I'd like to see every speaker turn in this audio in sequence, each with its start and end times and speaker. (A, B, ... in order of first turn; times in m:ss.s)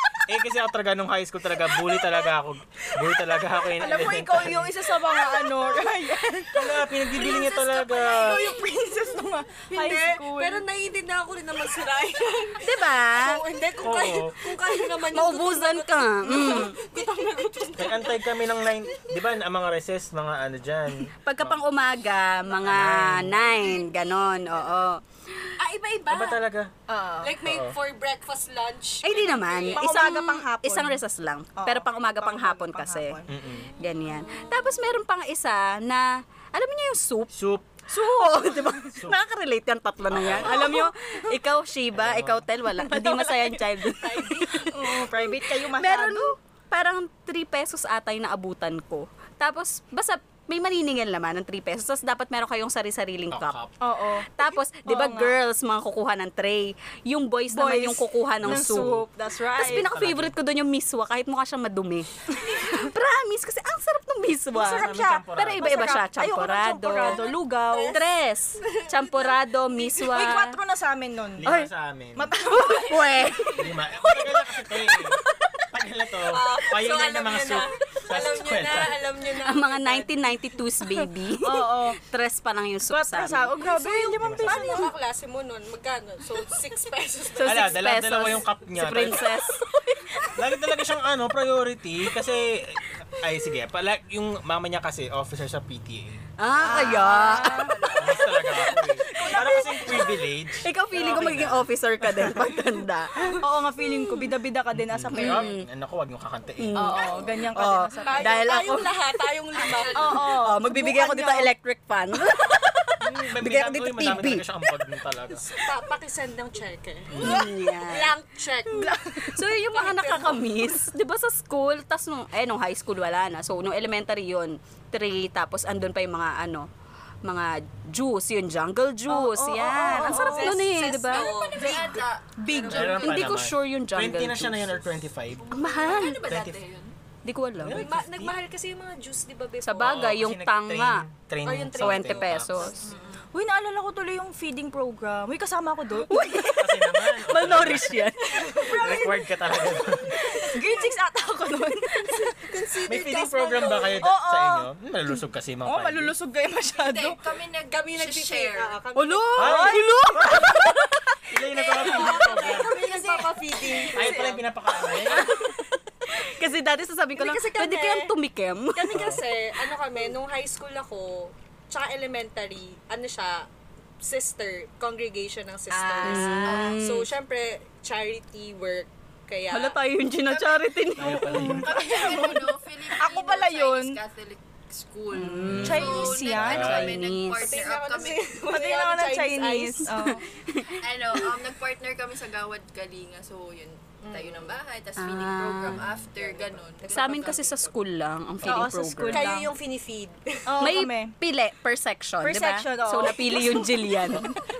0:00.2-0:04.8 A
0:03.7-0:06.9 B
0:06.5-0:08.5 A
0:07.1-0:08.6 C
0:07.9-0:10.6 B
0:09.7-0:18.4 C
0:12.6-0:13.4 D
0:13.8-0:14.4 A
0:15.1-0:16.8 D
0:17.8-0:21.6 A
0:21.2-0:25.5 D
0:22.5-0:23.4 A
0:23.4-0:24.7 C
0:25.6-0:26.4 C
0:26.1-0:26.7 A
0:26.9-0:27.4 B
0:27.2-0:30.0 C
0:27.4-0:27.8 A
0:29.0-0:33.2 D
0:29.7-0:31.0 B
0:31.6-0:33.3 B
0:33.3-0:33.7 A
0:33.6-0:34.9 C
0:33.8-0:37.3 D
0:37.3-0:37.8 A
0:37.9-0:39.0 B
0:37.9-0:45.0 D
0:38.9-0:39.2 A
0:40.1-0:40.8 A
0:40.3-0:41.4 B
0:41.9-0:42.4 A
0:42.7-0:43.8 B
0:43.9-0:44.9 C
0:44.7-0:46.3 B
0:45.6-0:53.6 D
0:53.3-0:53.7 A
0:53.8-0:55.4 B
0:54.4-0:59.0 D
0:57.5-0:59.9 B
0:58.4-0:58.9 A
0:59.6-1:07.2 D
0:59.6-1:00.3 A
1:04.5-1:08.0 B
1:04.6-1:05.9 A
1:07.0-1:08.0 C
1:07.8-1:10.6 D
1:08.6-1:10.4 C
1:10.1-1:11.6 B
1:11.4-1:12.4 A
1:11.4-1:11.7 D
1:12.2-1:13.5 B
1:12.6-1:13.7 D
1:13.6-1:15.2 A
1:14.1-1:14.3 C
1:14.9-1:15.2 B
1:15.7-1:19.0 A
1:16.3-1:20.2 C
1:19.4-1:23.5 D
1:20.9-1:22.0 B
1:22.9-1:24.9 B
1:23.6-1:27.9 C
1:24.2-1:24.8 A
1:27.4-1:29.6 D
1:27.4-1:29.3 A
1:30.3-1:36.2 A
1:36.4-1:37.7 D
1:36.6-1:37.9 B
1:36.7-1:40.2 C
1:36.8-1:38.8 E
1:38.0-1:42.5 A
1:38.7-1:40.0 B
1:40.6-1:43.4 D
1:43.4-1:45.5 B
1:44.7-1:47.0 A
1:45.1-1:45.7 D
1:46.6-1:48.9 D
1:46.7-1:48.6 B
1:47.0-1:47.4 C
1:48.0-1:50.3 C
1:49.5-1:50.2 E
1:49.9-1:51.5 B
1:50.2-1:54.4 D
1:53.0-1:55.5 A
1:55.5-1:59.0 C
1:57.1-1:57.5 A
1:57.2-1:58.1 D
1:58.7-1:59.4 B
1:59.1-2:06.7 D
1:59.6-2:00.5 C
2:07.2-2:11.3 D
2:09.1-2:10.6 B
2:09.9-2:13.2 C
2:11.1-2:13.1 E
2:12.5-2:14.7 D
2:12.7-2:15.5 A
2:15.3-2:16.9 E
2:15.5-2:16.3 D
2:16.2-2:16.6 A
2:17.2-2:17.8 D
2:17.6-2:18.3 A
2:17.7-2:20.2 C
2:19.6-2:21.0 D
2:19.8-2:22.7 A
2:21.4-2:22.9 C
2:21.8-2:22.8 D
2:22.8-2:23.3 E
2:23.3-2:26.6 B
2:26.1-2:28.6 D
2:26.5-2:30.2 A
2:28.3-2:30.9 C
2:30.1-2:32.4 B
2:32.1-2:34.0 C
2:32.9-2:36.1 A
2:34.0-2:34.7 B
2:35.6-2:37.2 B
2:36.7-2:38.8 E
2:37.7-2:39.7 C
2:38.9-2:40.8 D
2:39.4-2:40.7 A
2:39.4-2:44.4 B
2:40.5-2:40.7 C
2:41.3-2:42.8 A
2:41.5-2:45.2 C
2:43.9-2:45.3 A
2:45.1-2:49.2 D
2:47.2-2:48.1 C
2:48.7-2:53.4 C
2:48.9-2:49.2 A
2:54.0-2:59.8 C
2:55.7-2:57.1 D
2:56.0-2:56.8 E
2:56.0-2:56.3 B
2:59.5-3:01.7 D
3:00.3-3:00.6 C
3:01.0-3:01.9 A
3:01.3-3:04.0 B
3:01.5-3:08.3 E
3:05.1-3:07.5 D
3:05.5-3:06.7 B
3:05.5-3:07.0 A
3:07.4-3:09.9 C
3:08.5-3:10.2 B
3:09.9-3:11.3 D
3:10.8-3:17.7 E
3:14.0-3:14.6 C
3:15.0-3:15.8 D
3:15.7-3:16.0 A
3:16.1-3:17.7 C
3:16.9-3:19.3 D
3:18.4-3:19.5 B
3:19.1-3:20.8 C
3:20.5-3:21.2 B
3:20.6-3:24.3 D
3:22.2-3:24.4 B